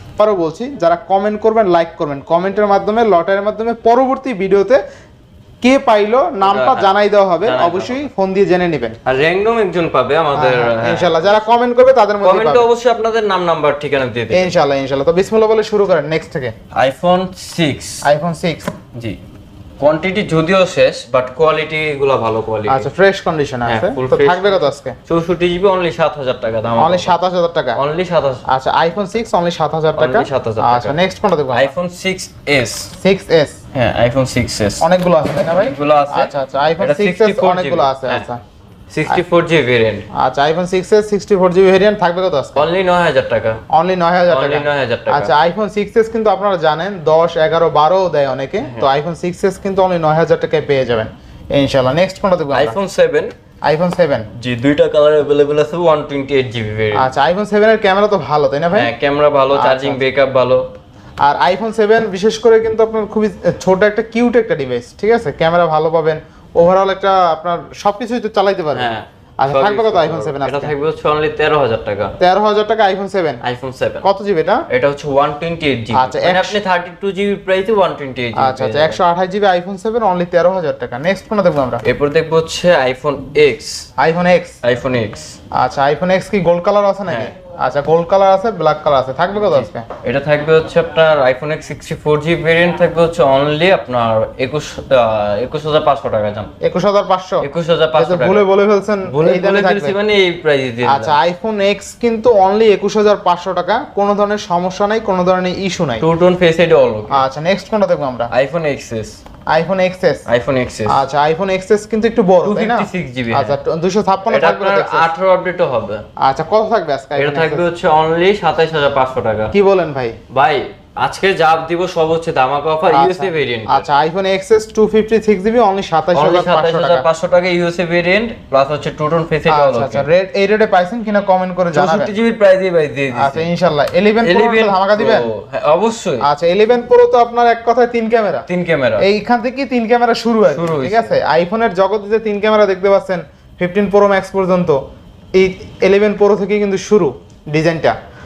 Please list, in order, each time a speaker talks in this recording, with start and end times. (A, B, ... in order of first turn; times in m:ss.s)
0:00.2-0:04.8 A
0:05.6-0:09.0 A
0:06.4-0:06.9 B
0:07.4-0:08.0 B
0:09.0-0:11.4 B
0:10.3-0:12.7 A
0:12.2-0:14.5 B
0:14.3-0:16.5 A
0:16.7-0:18.0 B
0:18.0-0:18.7 A
0:19.8-0:22.9 B
0:22.7-0:25.0 A
0:23.6-0:27.1 B
0:26.8-0:27.8 A
0:27.8-0:28.4 B
0:28.5-0:31.7 A
0:30.0-0:31.0 B
0:31.5-0:32.9 B
0:33.0-0:33.6 A
0:33.7-0:34.8 B
0:34.8-0:38.4 A
0:35.6-0:38.3 B
0:38.9-0:40.1 B
0:40.1-0:42.6 A
0:42.5-0:43.6 B
0:43.7-0:52.8 A
0:44.3-0:45.3 B
0:48.6-0:48.9 B
0:52.5-0:53.3 B
0:53.6-0:54.3 A
0:54.3-0:57.1 B
0:56.9-0:58.9 A
0:58.7-1:00.6 B
0:59.5-1:00.0 A
1:01.2-1:10.7 A
1:08.7-1:12.1 B
1:12.2-1:13.4 A
1:13.4-1:14.1 B
1:14.0-1:14.6 A
1:14.7-1:19.0 B
1:15.9-1:16.6 A
1:18.4-1:21.8 A
1:21.8-1:23.8 B
1:24.0-1:24.6 A
1:24.6-1:25.3 B
1:25.5-1:29.8 A
1:29.4-1:36.5 B
1:36.6-1:39.9 A
1:37.4-1:38.4 B
1:39.0-1:41.2 B
1:40.8-1:46.0 A
1:46.0-1:47.2 B
1:47.1-1:48.3 A
1:48.3-1:49.2 B
1:49.5-1:50.2 A
1:50.2-1:51.0 B
1:50.9-1:55.1 A
1:52.4-1:53.6 B
1:54.3-1:56.0 B
1:56.2-1:57.6 A
1:57.2-1:59.5 B
1:59.5-2:00.2 A
2:00.3-2:03.8 B
2:02.9-2:07.0 A
2:06.1-2:10.1 B
2:09.5-2:12.1 A
2:11.7-2:13.4 B
2:13.1-2:15.3 A
2:14.2-2:16.3 B
2:16.2-2:18.4 A
2:18.5-2:19.0 B
2:19.0-2:24.8 A
2:20.5-2:21.2 B
2:25.3-2:28.0 A